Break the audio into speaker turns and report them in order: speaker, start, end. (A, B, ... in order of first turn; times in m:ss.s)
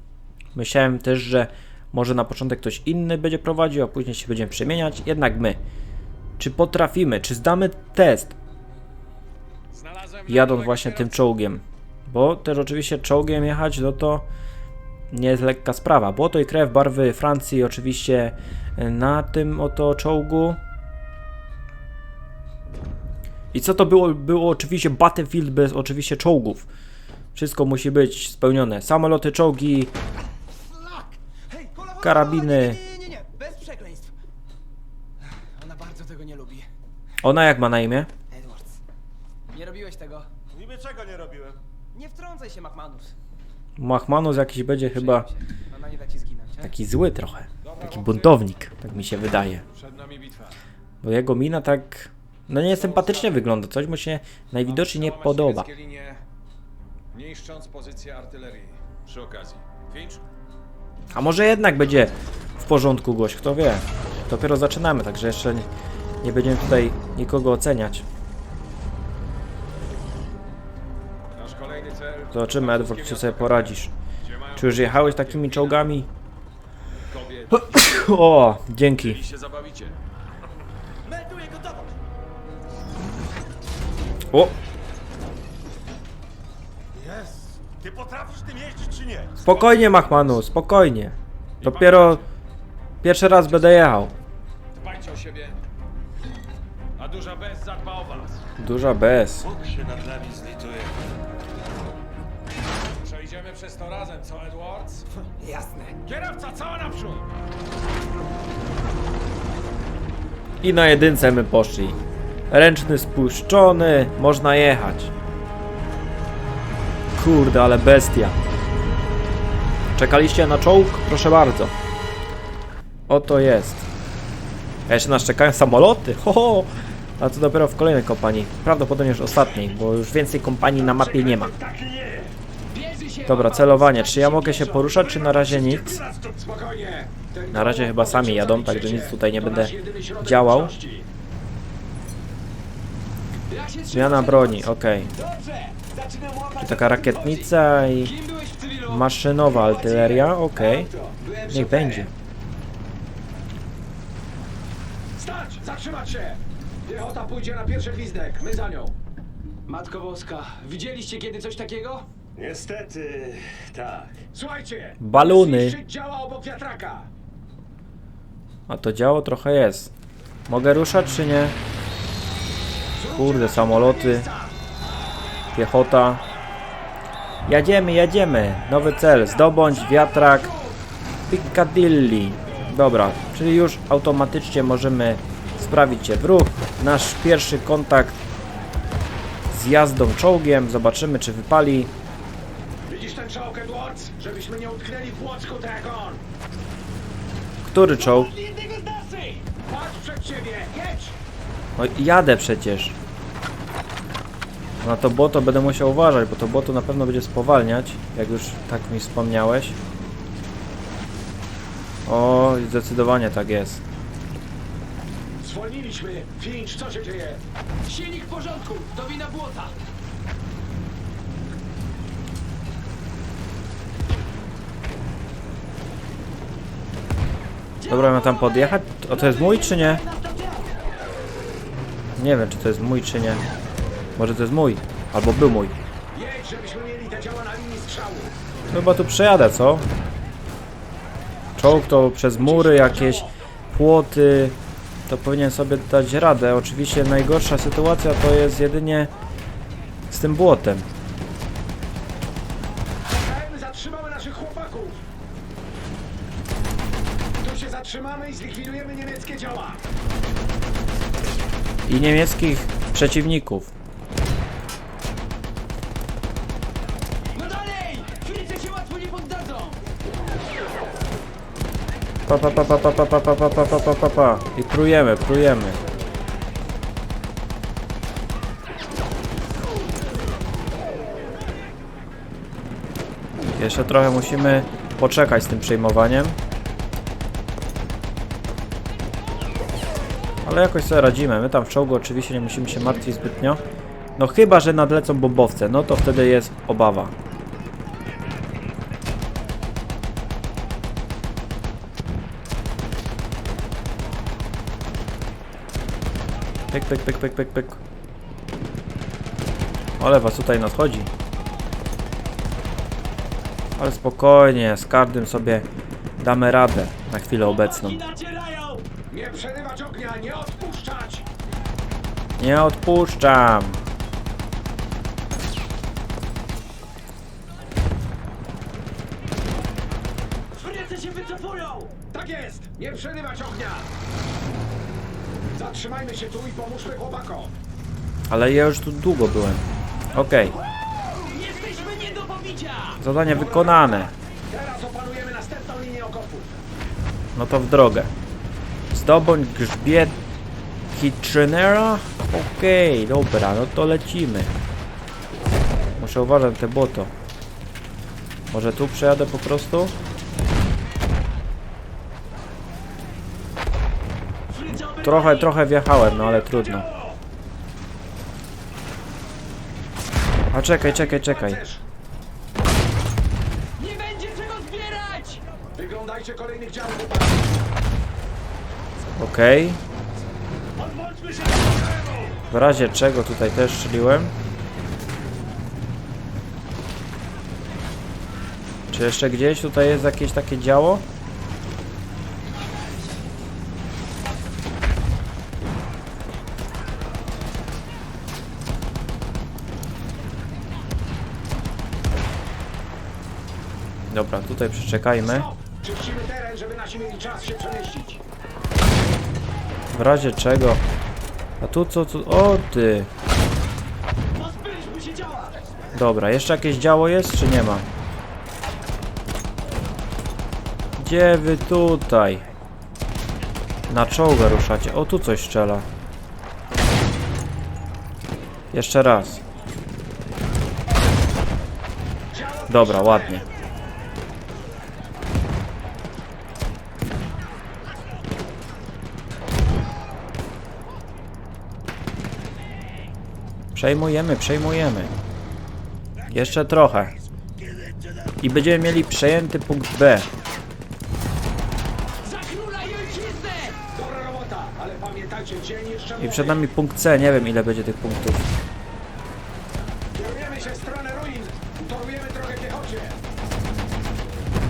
0:00.6-0:05.6 A
0:06.4-0:08.4 A
0:09.7-0:11.2 B
0:10.3-0:14.3 A
0:15.1-0:20.6 A
0:23.5-0:26.7 A
0:27.4-0:29.9 A
0:30.8-0:34.2 C
0:32.0-0:32.8 A
0:35.2-0:36.7 C
0:37.2-0:38.1 A
0:38.3-0:38.8 C
0:39.5-0:40.3 C
0:40.5-0:41.6 D
0:41.9-0:43.1 C
0:43.8-0:45.3 A
0:44.9-0:46.7 C
0:46.6-0:49.6 A
0:47.6-0:48.4 B
0:49.6-0:50.6 B
0:51.0-0:55.7 A
0:52.7-0:53.4 B
0:54.7-0:56.2 B
0:57.1-1:00.2 B
1:01.1-1:05.7 A
1:06.2-1:08.0 A
1:11.3-1:16.0 B
1:12.3-1:13.9 A
1:14.6-1:16.1 A
1:17.0-1:18.1 B
1:17.5-1:19.2 A
1:19.0-1:20.0 B
1:21.1-1:21.9 C
1:26.9-1:29.9 D
1:29.4-1:32.2 A
1:29.5-1:30.4 B
1:31.6-1:32.2 B
1:33.0-1:34.1 A
1:33.4-1:33.8 B
1:34.7-1:35.6 B
1:37.0-1:38.4 B
1:38.6-1:39.5 A
1:39.4-1:41.0 D
1:43.0-1:45.1 B
1:45.4-1:46.0 C
1:46.0-1:47.2 E
1:50.6-1:52.0 A
1:52.5-1:55.1 A
1:57.2-1:58.4 A
2:00.0-2:01.7 A
2:03.1-2:03.9 A
2:04.9-2:11.5 A
2:10.8-2:11.7 E
2:11.5-2:12.3 D
2:12.7-2:21.1 E
2:13.3-2:16.0 A
2:17.5-2:20.8 A
2:23.5-2:24.6 C
2:23.9-2:25.1 A
2:25.2-2:27.5 E
2:26.6-2:28.1 A
2:28.1-2:29.0 C
2:28.9-2:30.9 A
2:29.5-2:32.1 E
2:31.5-2:32.1 A
2:35.2-2:38.9 E
2:39.7-2:42.1 C
2:42.4-2:44.1 D
2:44.3-2:47.1 E
2:45.0-2:45.8 A
2:48.7-2:49.9 A
2:50.5-2:51.6 A
2:53.0-2:54.5 E
2:53.1-2:54.3 A
2:55.6-2:56.2 A
2:57.5-3:00.5 A
2:59.4-3:00.8 E
3:01.3-3:08.2 A
3:09.5-3:11.9 A
3:12.9-3:16.2 E
3:17.6-3:18.3 A
3:18.0-3:21.2 E
3:21.8-3:23.0 A
3:24.8-3:29.8 A
3:32.1-3:33.8 A
3:35.4-3:37.4 E
3:37.9-3:39.8 C
3:47.8-3:50.7 E
3:47.9-3:50.0 A
3:52.2-3:53.4 A
3:54.2-3:55.8 A
3:56.1-3:58.3 E
3:58.7-3:59.9 A
4:01.6-4:04.6 A
4:01.7-4:03.3 E
4:05.1-4:09.1 A
4:10.1-4:10.9 A
4:13.1-4:15.0 E
4:17.4-4:19.8 E
4:21.9-4:23.7 A
4:27.3-4:29.8 C
4:32.3-4:35.8 A
4:43.6-4:46.4 A
4:50.4-4:53.6 A
4:54.2-4:57.1 A
5:06.7-5:07.8 A
5:10.0-5:11.1 A
5:13.8-5:15.7 A
5:16.2-5:18.0 A
5:17.8-5:18.8 C
5:18.8-5:21.3 E
5:22.4-5:23.8 A
5:30.6-5:31.9 C
5:31.9-5:33.9 E
5:35.5-5:37.5 E
5:38.3-5:40.6 A
5:40.9-5:46.6 E
5:41.5-5:43.0 C
5:43.0-5:44.1 A
5:47.4-5:48.1 A
5:48.9-5:50.2 A
5:50.9-5:54.5 A
5:56.0-5:57.1 A
5:58.5-6:00.0 A
6:04.5-6:05.4 E
6:05.0-6:06.9 A
6:06.5-6:07.2 E
6:10.5-6:11.6 A
6:10.8-6:11.8 E
6:13.8-6:15.4 C
6:15.8-6:17.6 E
6:19.2-6:19.8 A
6:20.8-6:22.4 E
6:22.5-6:24.4 A
6:28.9-6:31.0 A
6:44.1-6:45.5 A
6:45.2-6:48.2 E
6:49.9-6:50.8 A
6:51.6-6:53.1 A
6:54.4-6:55.5 E
6:55.9-6:57.9 A
7:01.0-7:02.5 A
7:03.9-7:05.9 A
7:08.7-7:09.4 A
7:12.3-7:13.4 E
7:12.7-7:13.4 A
7:23.8-7:25.1 A
7:26.3-7:27.1 A
7:28.4-7:30.3 A
7:32.2-7:33.8 C
7:33.8-7:36.6 E
7:36.2-7:38.4 A
7:40.1-7:43.2 E